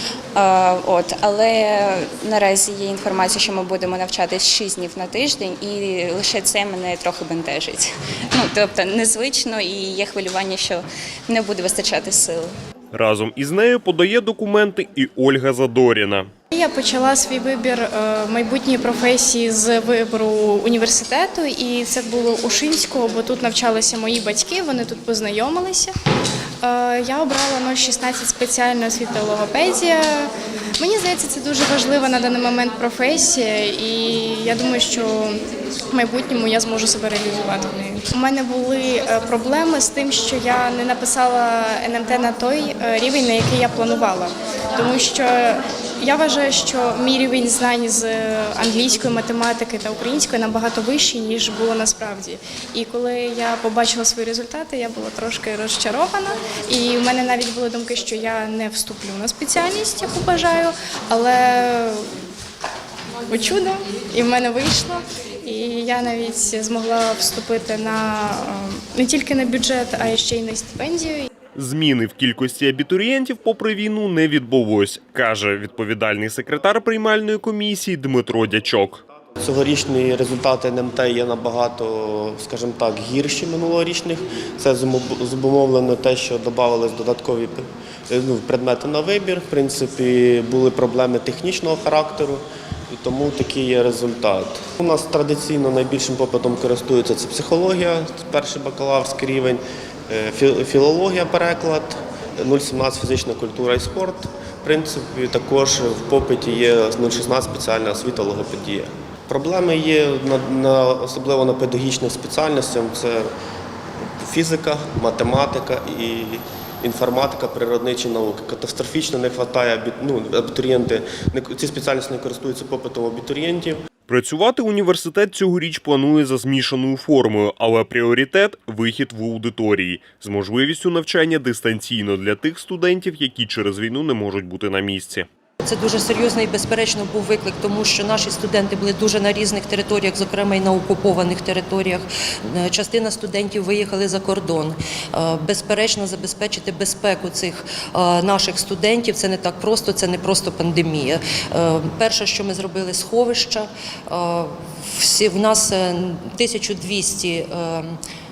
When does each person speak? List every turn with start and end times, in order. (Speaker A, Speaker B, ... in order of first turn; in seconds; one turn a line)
Speaker A: 0.3-12.5
Speaker B: 12.9-16.3
Speaker C: 16.5-25.9
Speaker C: 26.6-35.4
Speaker C: 35.9-62.1
Speaker C: 63.3-71.3
Speaker B: 71.5-79.0
Speaker D: 79.4-113.3
Speaker D: 114.2-123.8
Speaker B: 124.1-135.3
Speaker E: 135.6-158.0